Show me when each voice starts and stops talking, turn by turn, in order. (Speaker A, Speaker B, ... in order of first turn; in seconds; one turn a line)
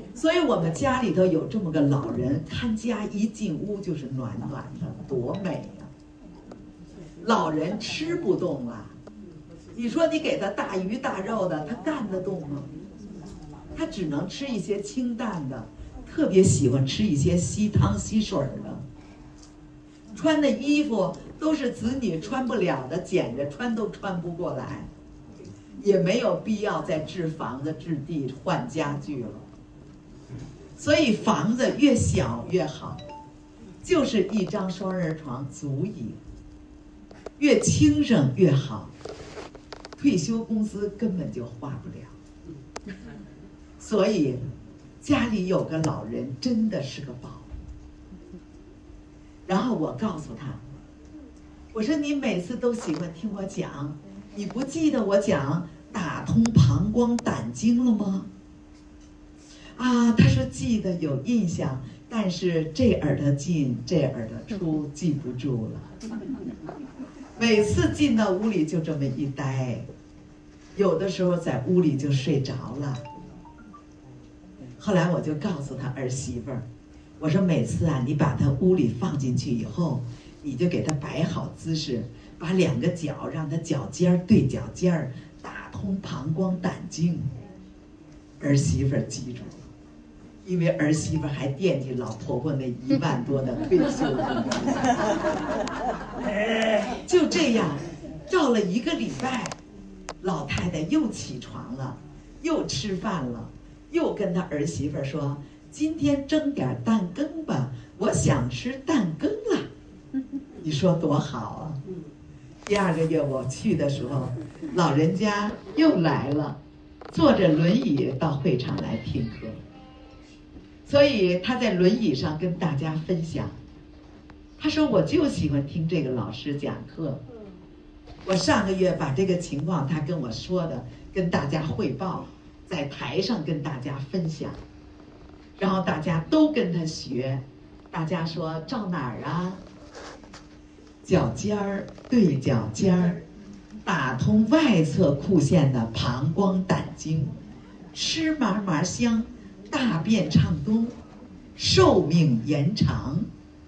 Speaker A: 0.1-5.9
Speaker A: 7.2-9.0
Speaker A: 9.7-12.7
Speaker A: 13.7-18.8
Speaker A: 20.1-24.9
Speaker A: 25.8-29.4
Speaker A: 30.8-33.0
Speaker A: 33.8-36.2
Speaker A: 37.4-38.9
Speaker A: 40.0-42.1
Speaker A: 43.8-44.4
Speaker A: 45.0-47.5
Speaker A: 49.5-50.6
Speaker A: 51.7-58.3
Speaker A: 59.8-65.9
Speaker A: 67.4-69.9
Speaker A: 70.7-73.0
Speaker A: 74.8-76.7
Speaker A: 77.2-87.3
Speaker A: 88.4-89.7
Speaker A: 90.4-95.3
Speaker A: 97.0-99.5
Speaker A: 100.2-109.7
Speaker A: 110.6-111.8
Speaker A: 112.7-116.6
Speaker A: 117.1-119.6
Speaker A: 120.8-123.6
Speaker A: 124.6-127.2
Speaker A: 128.2-134.6
Speaker A: 135.6-139.6
Speaker A: 141.0-143.2
Speaker A: 143.8-147.3
Speaker A: 147.9-151.0
Speaker A: 151.6-153.3